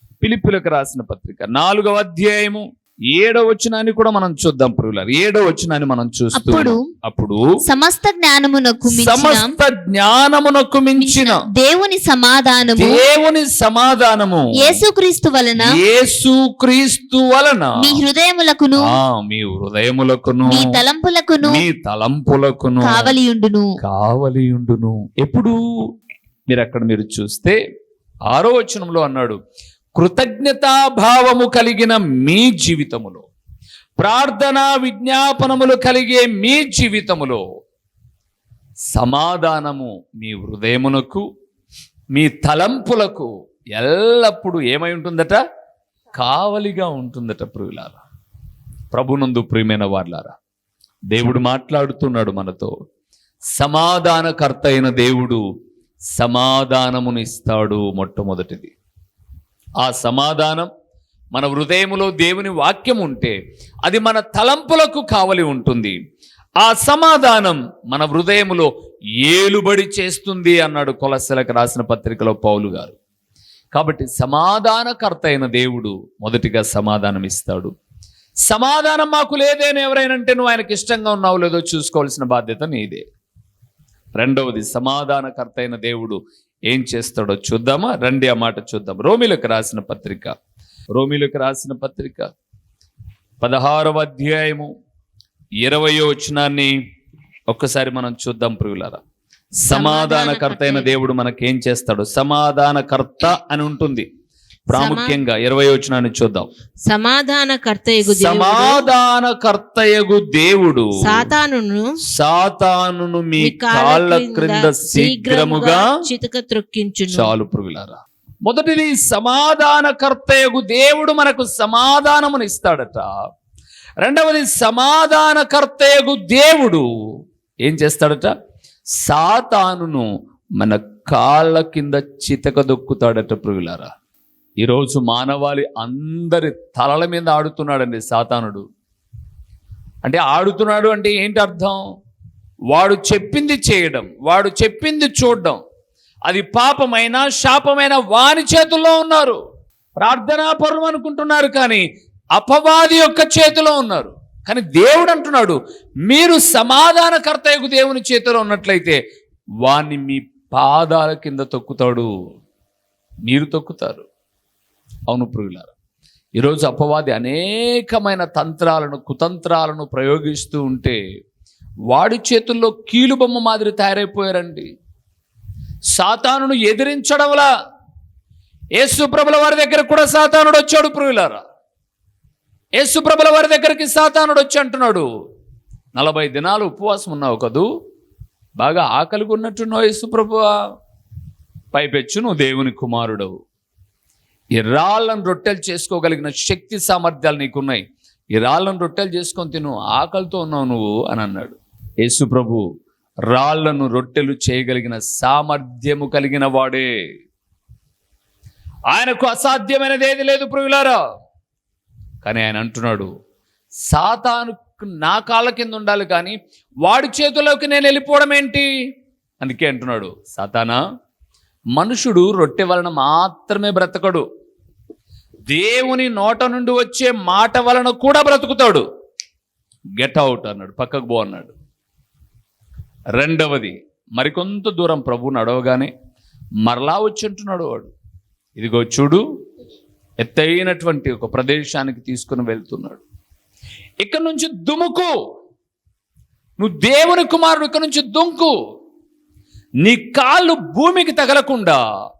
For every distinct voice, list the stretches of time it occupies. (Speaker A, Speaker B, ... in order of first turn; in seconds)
Speaker A: 0.2-7.4, 8.9-11.4, 12.8-14.8, 15.6-18.0, 18.8-20.8, 21.4-23.1, 23.8-25.6, 26.5-27.6, 28.3-29.4, 30.0-33.2, 34.0-37.4, 38.9-41.2, 42.1-45.4, 46.2-48.0, 48.9-50.4, 51.1-52.7, 53.6-55.4, 56.2-58.7, 59.8-60.7, 61.3-66.0, 66.6-68.7, 69.2-73.0, 73.7-77.7, 78.5-83.0, 84.2-90.3, 91.0-92.3, 93.4-94.7, 95.6-96.7, 97.5-99.0, 99.7-104.1, 104.7-106.5, 108.1-111.3, 112.1-115.8, 117.1-123.1, 124.0-126.9, 127.6-128.3, 129.0-130.1, 130.6-133.9, 134.6-138.6, 140.0-141.8, 142.7-145.6, 146.3-149.4, 150.0-151.8, 152.4-159.0, 159.6-162.1, 163.3-164.1, 165.1-165.7, 166.4-171.0, 171.9-174.7, 175.9-177.5, 178.8-181.4, 182.8-185.1, 186.0-187.7, 188.6-190.6, 191.7-193.3, 194.6-197.8, 198.3-202.6, 203.3-206.9, 208.9-211.0, 212.2-213.1, 213.9-218.7, 219.4-220.8, 221.8-224.2, 225.5-228.9, 230.0-231.5, 233.2-235.9, 236.7-237.9, 238.6-239.2, 240.2-243.0, 244.0-245.1, 246.6-248.5, 249.8-251.8
Speaker B: 6.3-6.8, 7.7-9.5, 11.0-13.0, 14.6-15.8, 17.8-18.9, 20.5-21.6, 22.8-23.7
Speaker C: 99.7-100.9, 104.8-105.2, 106.9-108.8, 111.0-111.9, 113.4-117.3